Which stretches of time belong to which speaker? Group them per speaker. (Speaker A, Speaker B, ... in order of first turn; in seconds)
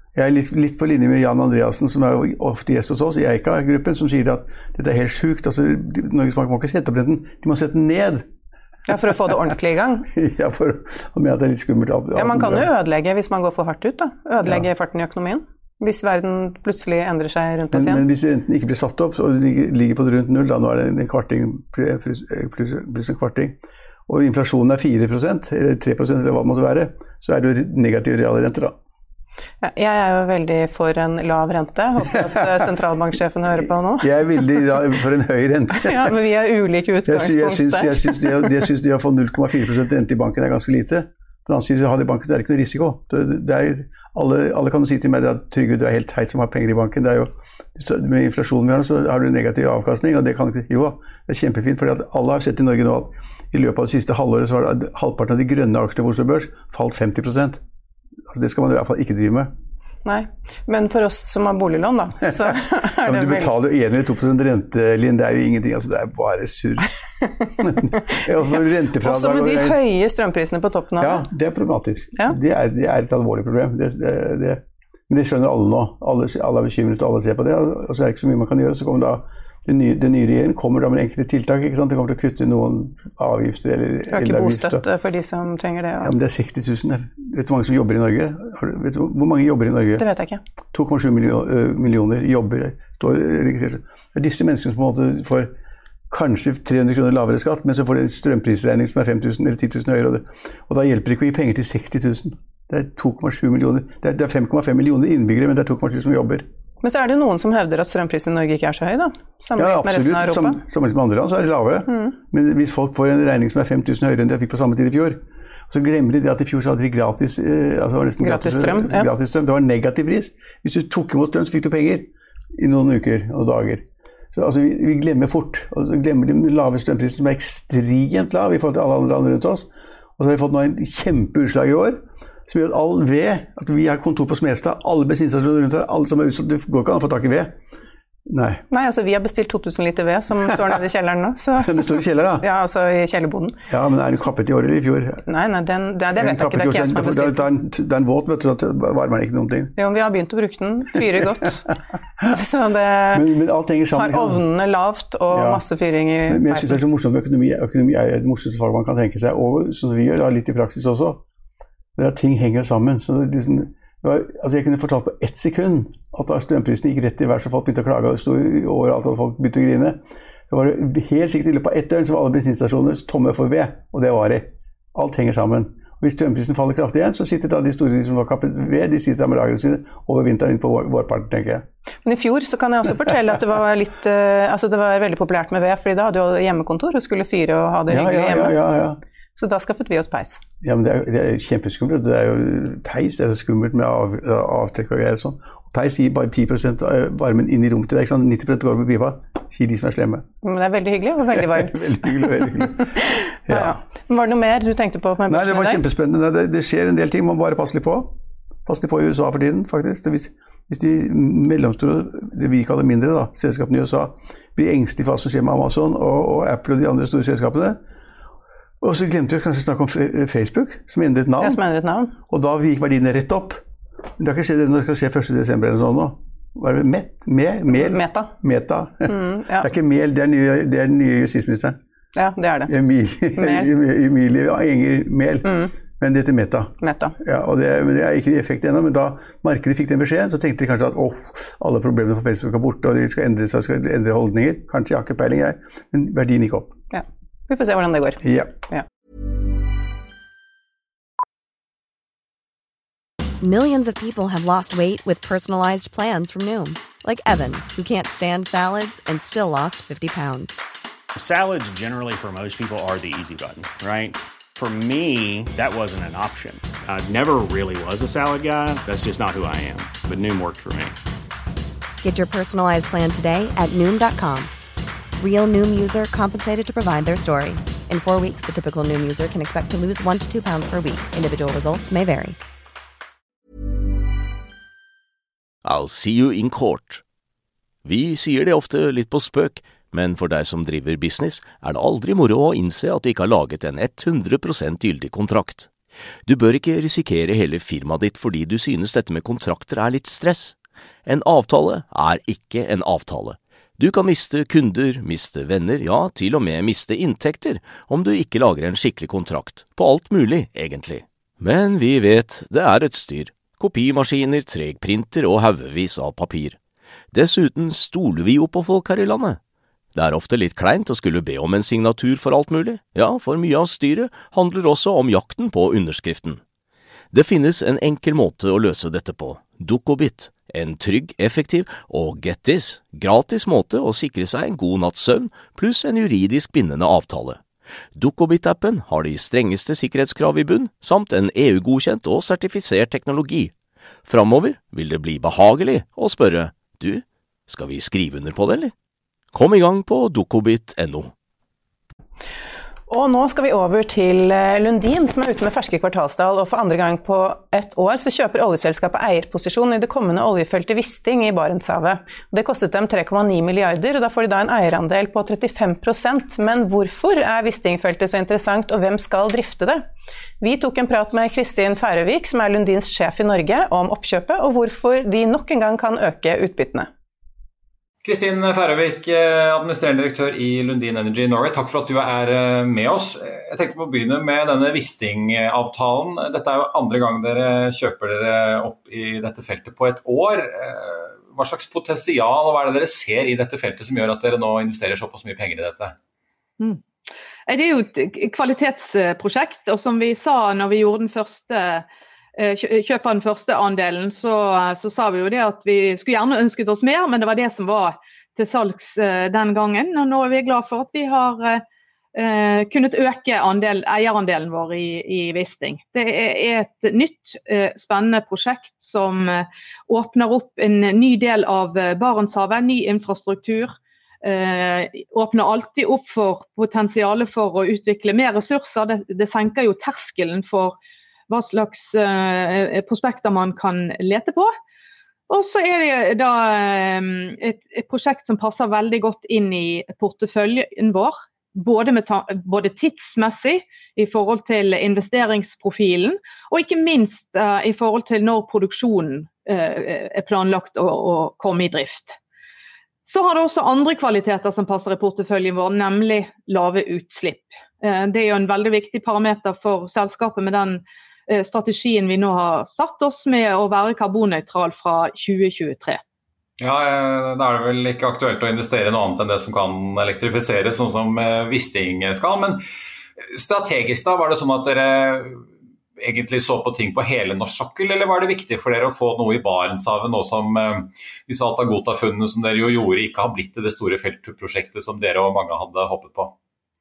Speaker A: 0.1-8.3, 10.1-12.7, 17.7-28.8, 32.2-32.5, 34.0-36.2, 37.1-57.6, 58.3-59.5, 62.2-66.9, 67.6-69.8, 71.0-84.8, 86.0-90.0, 90.7-95.5, 96.1-106.5, 109.6-137.6, 138.3-138.6, 141.6-142.4, 143.7-145.2, 146.2-149.7, 153.1-154.4, 155.3-155.6, 156.3-161.2, 162.0-181.7, 187.9-189.0, 190.6-200.3, 201.2-203.8, 205.3-208.2, 208.7-217.8, 218.8-221.6, 222.3-223.6, 224.2-231.8, 232.7-246.8, 248.2-248.6
Speaker B: 8.9-10.1, 12.2-18.0, 29.6-34.6, 35.8-38.6, 60.0-63.5, 67.2-71.2, 84.1-86.1, 90.0-90.4, 106.8-110.6, 111.9-112.2, 118.2-119.1, 138.7-143.6, 145.3-147.5, 149.8-151.7, 152.2-153.3, 153.9-156.8, 182.1-188.6, 189.4-190.4, 200.4-205.8, 221.4-222.1, 227.7-228.3, 229.1-229.7, 232.2-232.7, 233.4-233.7, 235.4-235.7, 236.8-237.2, 246.9-248.9, 352.9-369.9, 370.4-376.9
Speaker C: 253.4-260.6, 272.0-274.5, 275.2-282.4
Speaker D: 261.1-271.0
Speaker E: 285.6-287.0, 287.9-295.7, 296.3-316.6, 317.1-319.4, 319.9-326.4, 327.1-337.4, 337.9-343.5, 344.1-348.7, 349.3-351.1
Speaker F: 378.0-395.9, 466.6-472.6, 473.3-475.4, 476.0-486.3
Speaker G: 397.5-411.6, 412.1-430.8, 431.3-434.5, 435.3-452.2, 453.1-466.0